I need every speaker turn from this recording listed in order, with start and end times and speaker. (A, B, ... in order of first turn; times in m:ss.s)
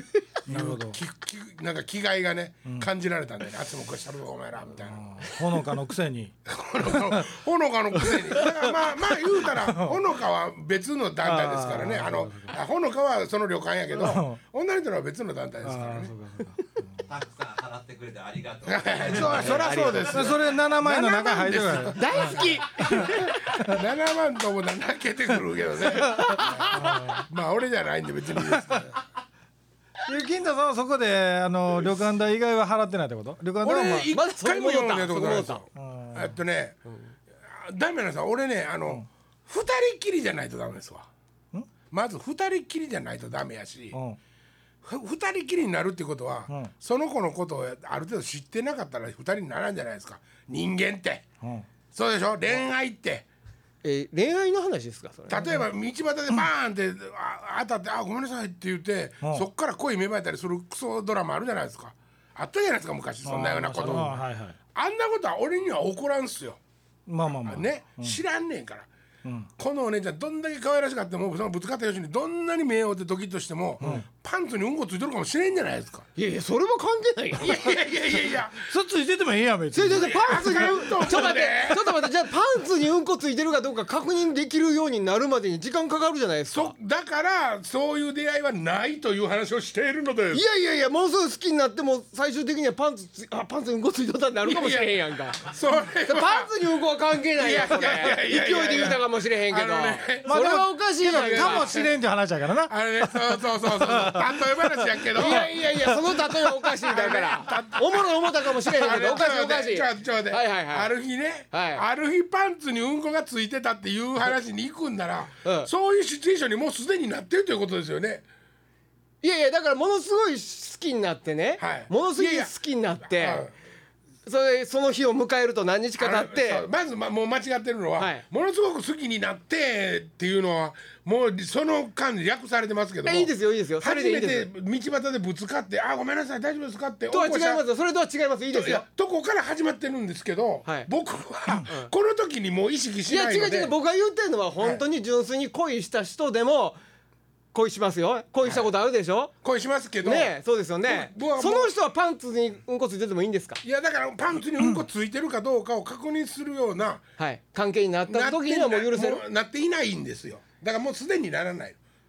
0:00.5-0:05.3 A
0:00.5-0:01.0 B
0:04.9-0:06.3 B
0:06.4-0:16.2 A
0:08.1-0:08.6 B
0:09.2-0:10.0 B
0:11.2-0:12.5 B
0:14.0-0:14.4 B
0:15.6-0:17.1 B
0:17.0-0:20.0 C
0:18.6-0:29.0 A
0:19.0-0:23.8 B
0:19.4-0:20.3 D
0:21.9-0:23.6 D
0:26.0-0:27.1 D
0:26.3-0:27.3 B
0:30.0-0:34.1 B
0:33.6-0:36.8 A
0:33.9-0:35.6 D
0:35.8-0:36.3 B
0:36.9-0:37.2 D
0:37.4-0:41.1 A
0:41.9-0:44.0 A
0:43.9-0:44.2 B
0:44.8-0:51.3 A
0:51.4-0:51.7 B
0:51.9-0:53.3 A
0:53.8-0:55.6 D
0:55.3-1:04.2 A
1:03.2-1:04.6 B
1:04.8-1:06.6 A
1:07.1-1:08.2 B
1:07.3-1:08.9 A
1:09.2-1:09.5 B
1:09.6-1:16.1 A
1:13.8-1:14.1 B
1:16.2-1:17.9 D
1:17.4-1:18.6 A
1:18.6-1:20.6 B
1:19.7-1:26.7 D
1:19.9-1:22.0 A
1:26.5-1:30.4 A
1:30.3-1:35.4 D
1:34.4-1:36.5 A
1:36.1-1:41.7 D
1:37.4-1:42.0 A
1:40.3-1:46.0 B
1:42.7-1:45.9 A
1:45.2-1:50.9 D
1:46.8-1:58.2 A
1:51.5-1:51.8 D
1:55.4-1:55.7 D
1:59.2-2:03.5 D
2:01.6-2:02.5 A
2:03.2-2:03.5 A
2:04.3-2:06.7 D
2:06.0-2:17.6 A
2:08.0-2:08.2 D
2:13.0-2:14.5 D
2:17.1-2:18.8 D
2:18.5-2:23.8 A
2:20.6-2:20.9 D
2:23.1-2:26.8 D
2:27.5-2:29.3 D
2:28.4-2:28.7 A
2:29.4-2:30.3 A
2:30.0-2:33.6 D
2:30.9-2:31.7 A
2:33.6-2:37.0 A
2:37.2-2:39.2 D
2:38.1-2:41.8 A